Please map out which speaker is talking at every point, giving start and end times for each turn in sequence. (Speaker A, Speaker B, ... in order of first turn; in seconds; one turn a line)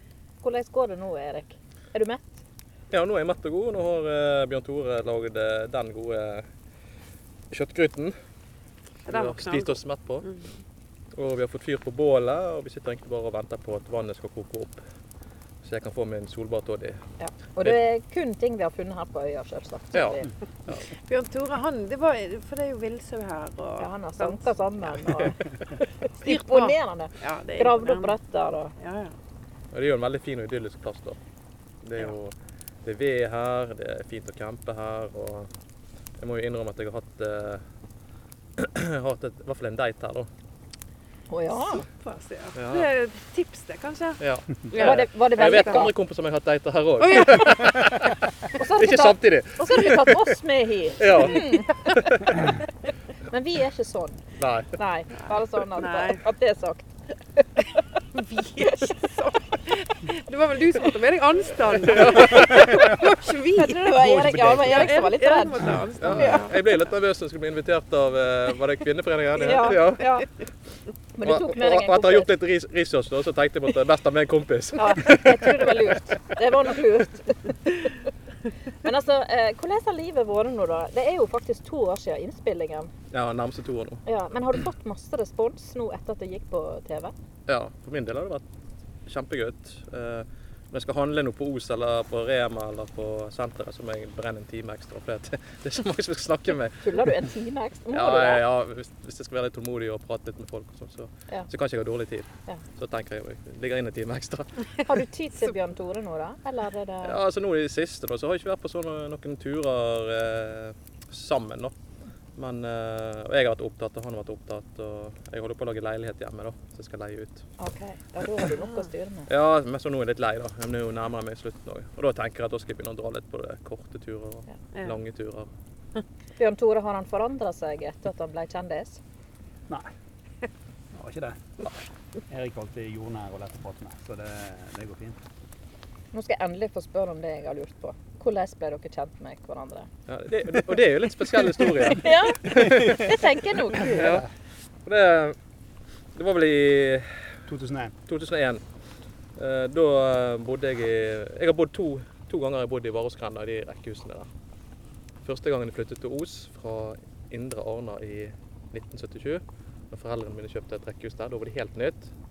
Speaker A: 0.4-2.4
Speaker B: 2.9-6.5
Speaker B: 7.5-8.2
Speaker B: 9.1-10.3
Speaker C: 9.1-10.5
Speaker B: 11.2-14.8
Speaker B: 15.6-17.0
Speaker A: 17.2-20.3
Speaker B: 19.9-20.9
Speaker C: 21.0-24.5
Speaker A: 23.8-25.4
Speaker A: 26.2-28.8
Speaker C: 26.2-28.1
Speaker C: 28.8-29.1
Speaker B: 29.7-31.2
Speaker B: 31.8-35.5
Speaker B: 36.2-37.6
Speaker B: 38.6-40.3
Speaker A: 41.3-41.9
Speaker C: 41.7-44.2
Speaker B: 42.5-42.9
Speaker B: 44.2-50.3
Speaker C: 44.7-45.9
Speaker A: 44.7-45.9
Speaker C: 47.0-47.9
Speaker A: 48.6-51.7
Speaker B: 51.0-52.5
Speaker A: 53.3-54.2
Speaker B: 54.4-54.7
Speaker A: 54.8-57.6
Speaker C: 55.2-56.2
Speaker C: 58.1-63.9
Speaker A: 58.6-58.9
Speaker B: 61.9-62.7
Speaker D: 62.3-63.0
Speaker A: 63.5-66.5
Speaker D: 63.9-65.0
Speaker C: 64.6-66.5
Speaker B: 66.0-70.2
Speaker A: 69.4-70.3
Speaker A: 71.2-72.3
Speaker B: 71.2-75.9
Speaker A: 74.8-78.0
Speaker A: 78.8-82.9
Speaker B: 83.1-84.0
Speaker A: 84.1-87.1
Speaker B: 87.5-88.4
Speaker B: 89.1-97.0
Speaker A: 96.8-98.4
Speaker B: 97.9-104.7
Speaker A: 104.8-107.2
Speaker B: 107.0-111.7
Speaker B: 112.4-117.5
Speaker A: 117.6-119.3
Speaker B: 119.3-125.5
Speaker A: 126.4-129.0
Speaker D: 130.9-131.4
Speaker D: 132.3-135.2
Speaker A: 136.1-139.9
Speaker B: 140.1-143.1
Speaker A: 141.9-144.0
Speaker D: 142.5-143.2
Speaker D: 143.7-144.2
Speaker B: 143.8-144.3
Speaker B: 144.8-145.4
Speaker B: 146.2-147.4
Speaker D: 147.5-147.9
Speaker B: 148.1-148.6
Speaker B: 149.4-154.3
Speaker B: 155.2-162.1